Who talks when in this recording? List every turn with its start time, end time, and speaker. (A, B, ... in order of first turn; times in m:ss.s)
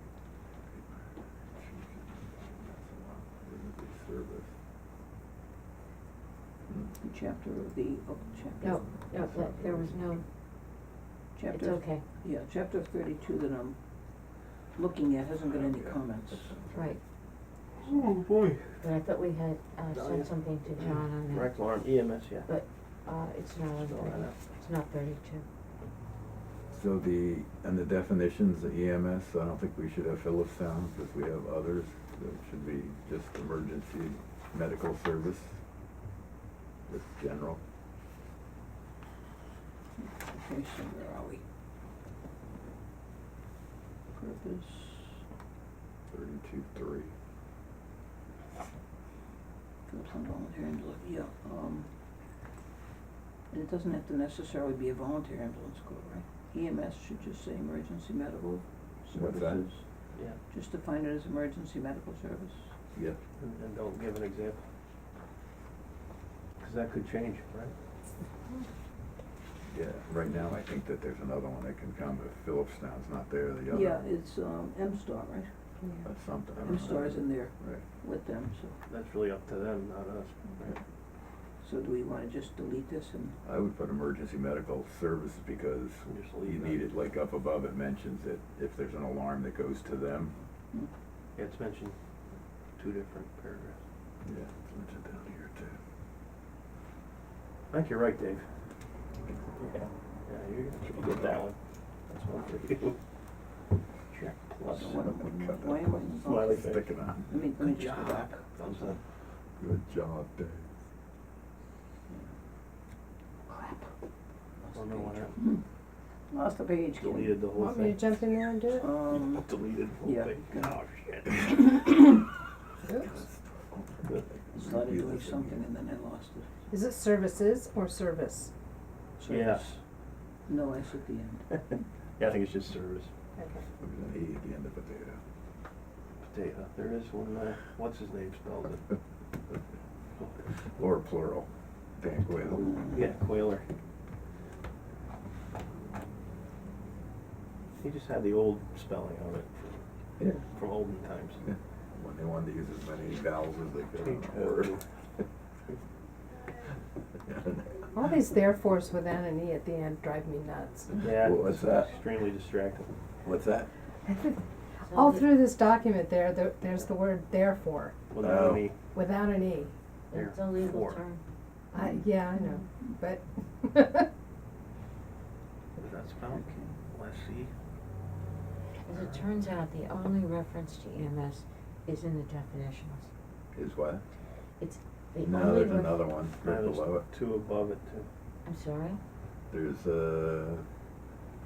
0:00.7-0:04.5 A
0:07.0-0:08.8 B
0:08.7-0:10.2 C
0:09.1-0:10.1 A
0:11.3-0:16.6 B
0:11.5-0:12.0 C
0:16.7-0:17.0 C
0:17.8-0:18.8 D
0:18.8-0:25.4 C
0:19.9-0:22.5 D
0:23.7-0:24.4 D
0:26.7-0:35.6 A
0:36.9-0:37.6 A
0:40.0-0:41.4 B
0:44.1-0:45.2 B
0:46.1-0:47.1 A
0:49.9-0:51.9 B
0:53.5-1:02.7 B
0:59.1-0:59.6 A
1:00.1-1:00.4 D
1:02.9-1:03.2 A
1:03.4-1:04.7 D
1:06.6-1:07.7 D
1:09.7-1:14.0 A
1:13.7-1:15.5 B
1:15.8-1:16.0 E
1:16.0-1:17.8 A
1:16.6-1:18.8 B
1:18.9-1:20.8 D
1:21.6-1:23.4 B
1:23.4-1:30.3 A
1:26.1-1:26.9 D
1:31.4-1:32.0 D
1:32.8-1:33.8 D
1:34.2-1:35.8 A
1:37.7-1:38.5 D
1:39.6-1:43.0 D
1:40.8-1:41.5 A
1:44.1-1:45.0 D
1:44.6-1:46.6 B
1:44.9-1:47.2 A
1:46.2-1:47.0 D
1:47.3-1:48.4 B
1:47.6-1:49.0 D
1:49.6-1:50.7 A
1:53.5-1:53.8 B
1:54.6-1:55.6 B
1:54.7-1:55.4 D
1:56.3-1:57.4 B
1:57.0-1:58.4 D
1:57.5-1:58.9 E
1:58.8-1:59.5 B
1:59.0-2:01.7 D
2:00.0-2:00.7 B
2:02.8-2:03.1 E
2:03.0-2:05.6 A
2:04.5-2:06.5 B
2:06.7-2:08.5 E
2:09.2-2:09.7 B
2:09.2-2:09.8 D
2:10.4-2:11.6 B
2:12.2-2:13.1 D
2:13.4-2:13.6 E
2:13.8-2:15.2 A
2:16.2-2:18.9 D
2:20.7-2:22.8 A
2:22.6-2:23.1 B
2:22.8-2:23.6 D
2:27.8-2:31.4 D
2:31.9-2:34.8 A
2:34.0-2:34.8 D
2:37.2-2:37.8 A
2:37.9-2:41.1 E
2:41.0-2:42.9 D
2:41.0-2:42.0 A
2:43.2-2:43.7 A
2:44.0-2:48.1 E
2:44.9-2:45.4 C
2:48.1-2:48.8 D
2:48.2-2:48.7 A
2:48.9-2:49.7 E
2:50.1-2:51.2 C
2:50.1-2:51.0 D
2:51.7-2:54.1 E
2:51.8-2:52.6 B
2:55.8-2:57.5 D
2:56.3-2:56.8 B
2:58.8-3:03.1 C
2:58.9-2:59.3 D
3:03.5-3:04.0 A
3:04.6-3:06.1 C
3:05.2-3:07.1 A
3:06.4-3:08.1 D
3:08.4-3:09.0 C
3:09.5-3:10.6 A